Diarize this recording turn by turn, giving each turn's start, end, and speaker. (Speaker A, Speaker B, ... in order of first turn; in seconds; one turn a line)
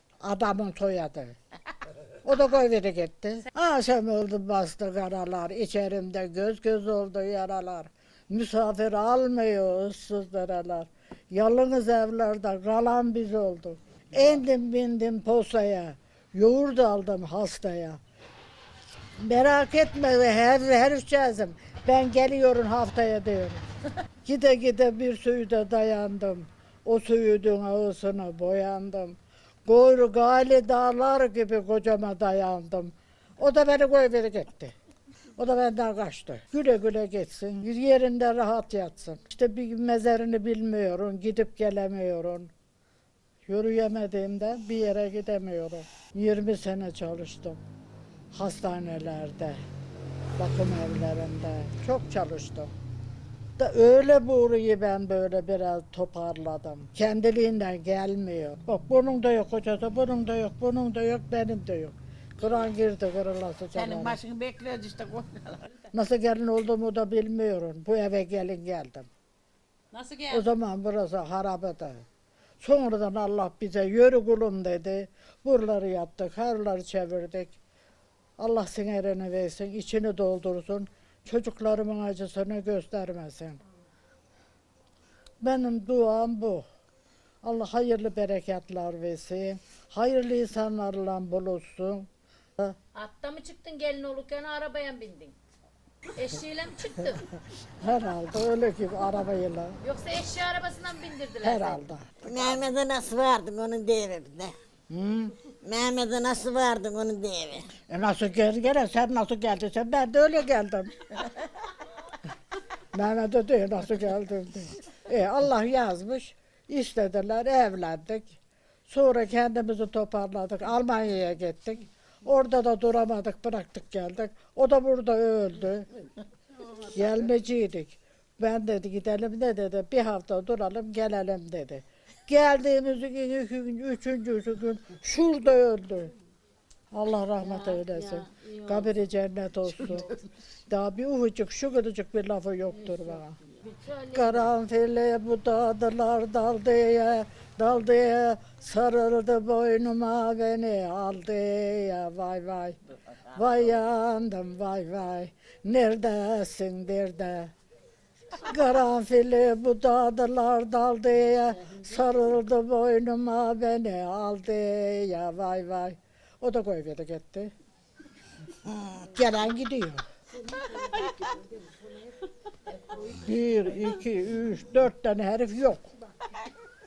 Speaker A: 0.2-1.4
Speaker A: 2.2-18.0
Speaker A: 19.2-23.6
Speaker A: 24.2-34.8
Speaker A: 35.4-42.5
Speaker A: 43.5-47.6
Speaker A: 48.3-49.6
Speaker A: 50.4-52.7
Speaker A: 53.6-64.2
Speaker B: 63.8-65.9
Speaker A: 65.9-69.1
Speaker B: 69.9-70.5
Speaker A: 70.3-72.1
Speaker A: 72.6-77.6
Speaker A: 78.4-83.6
Speaker A: 85.4-86.7
Speaker A: 87.4-92.1
Speaker C: 93.0-95.3
Speaker C: 96.2-97.3
Speaker A: 97.7-99.8
Speaker C: 99.8-101.8
Speaker A: 101.4-102.1
Speaker D: 102.2-104.5
Speaker A: 104.9-105.4
Speaker D: 105.6-107.7
Speaker A: 107.9-111.1
Speaker A: 112.9-125.9
Speaker A: 126.8-136.1
Speaker A: 136.9-140.1
Speaker B: 139.8-140.2
Speaker A: 140.7-143.4
Speaker C: 143.6-144.4
Speaker A: 144.1-157.5
Speaker A: 158.4-167.5
Speaker A: 168.9-170.1
Speaker B: 170.4-172.2
Speaker A: 172.9-175.9